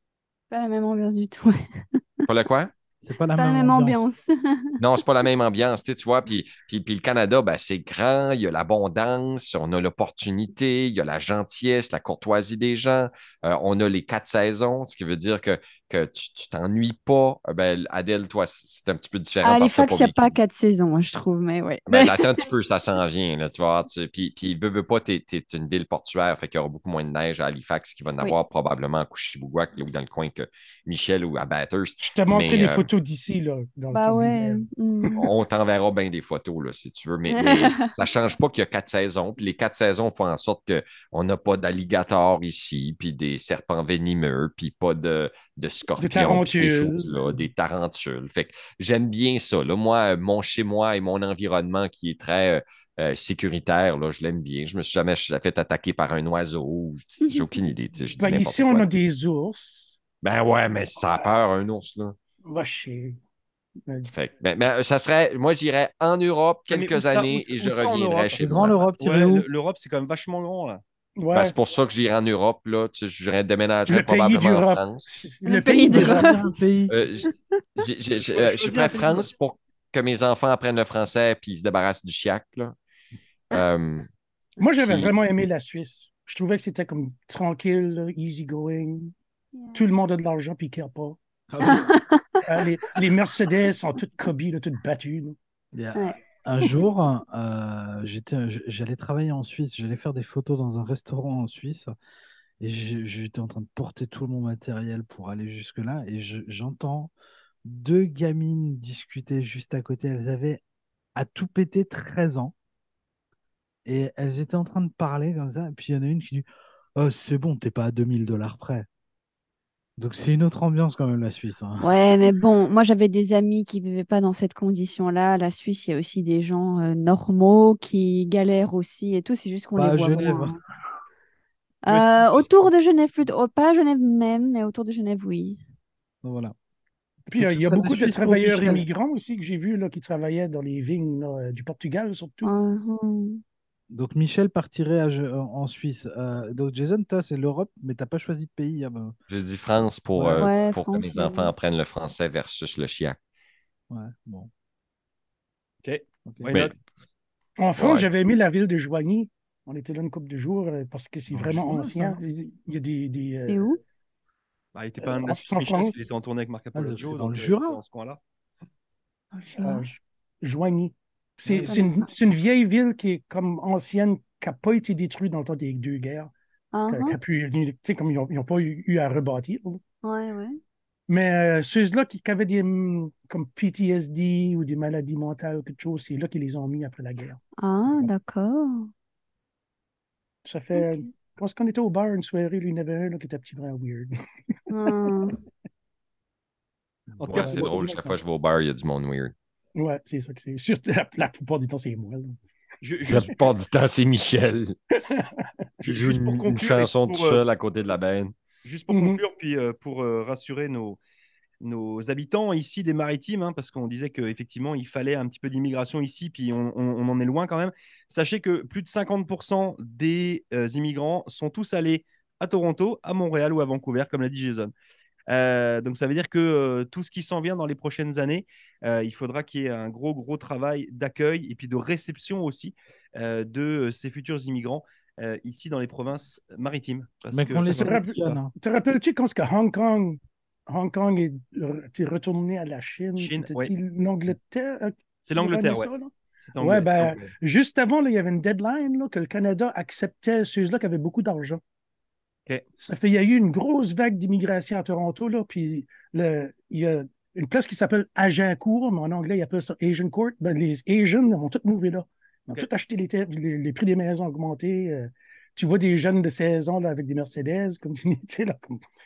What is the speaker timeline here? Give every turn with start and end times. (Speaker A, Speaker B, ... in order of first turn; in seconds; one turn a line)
Speaker A: 0.5-2.3
Speaker B: 2.3-2.7
Speaker C: 3.0-4.0
Speaker A: 3.4-4.8
Speaker B: 4.8-20.3
Speaker A: 19.4-22.4
Speaker B: 21.9-32.9
Speaker D: 32.0-35.1
Speaker A: 33.9-35.3
Speaker B: 35.2-58.9
Speaker A: 37.3-37.9
Speaker D: 46.0-47.1
Speaker A: 57.2-57.5
Speaker D: 58.1-60.0
Speaker B: 60.2-62.1
Speaker D: 62.5-63.2
Speaker B: 64.1-68.8
Speaker E: 66.7-70.8
Speaker C: 68.4-69.5
Speaker D: 71.2-71.5
Speaker B: 71.3-75.0
Speaker D: 73.9-76.4
Speaker A: 75.5-76.4
Speaker C: 75.9-76.9
Speaker B: 76.9-82.7
Speaker E: 78.3-79.3
Speaker B: 83.5-84.1
Speaker D: 84.6-89.1
Speaker B: 84.8-85.1
Speaker A: 89.6-89.8
Speaker D: 89.7-91.2
Speaker C: 91.5-91.9
Speaker A: 91.6-92.4
Speaker D: 92.4-95.3
Speaker C: 95.7-101.9
Speaker A: 95.9-96.7
Speaker C: 102.6-107.1
Speaker C: 107.6-110.6
Speaker C: 111.2-112.5
Speaker C: 113.8-116.5
Speaker C: 117.0-118.9
Speaker C: 120.0-122.3
Speaker A: 121.8-130.6
Speaker C: 129.8-130.6
Speaker A: 131.8-135.6
Speaker E: 131.9-132.4
Speaker C: 136.2-136.5
Speaker D: 137.3-142.5
Speaker C: 137.4-138.8
Speaker A: 142.4-143.4
Speaker C: 143.9-149.1
Speaker B: 149.3-153.2
Speaker C: 150.2-150.5
Speaker A: 150.3-151.5
Speaker C: 153.9-154.5
Speaker E: 155.8-156.7
Speaker C: 156.2-156.5
Speaker D: 157.6-163.7
Speaker B: 157.8-158.1
Speaker C: 161.3-162.2
Speaker A: 163.5-163.8
Speaker E: 164.7-168.2
Speaker D: 165.0-166.1
Speaker C: 166.7-167.8
Speaker A: 169.3-169.8
Speaker D: 169.6-176.3
Speaker A: 171.6-172.1
Speaker A: 176.7-177.2
Speaker D: 176.9-179.8
Speaker A: 180.0-180.6
Speaker D: 181.1-187.4
Speaker A: 187.6-188.9
Speaker D: 190.4-194.1
Speaker A: 190.7-191.0
Speaker A: 194.7-195.4
Speaker D: 194.8-195.3
Speaker E: 197.2-198.1
Speaker B: 197.3-199.3
Speaker D: 197.3-198.1
Speaker D: 199.8-202.3
Speaker E: 202.8-203.4
Speaker B: 203.1-204.7
Speaker D: 205.0-205.3
Speaker E: 205.8-207.4
Speaker B: 205.8-208.3
Speaker E: 208.6-211.0
Speaker D: 208.9-209.2
Speaker E: 211.6-224.7
Speaker E: 225.3-238.0
Speaker C: 237.3-238.5
Speaker D: 237.7-251.6
Speaker E: 243.2-243.7
Speaker E: 245.2-245.9
Speaker E: 246.4-247.3
Speaker D: 252.8-268.8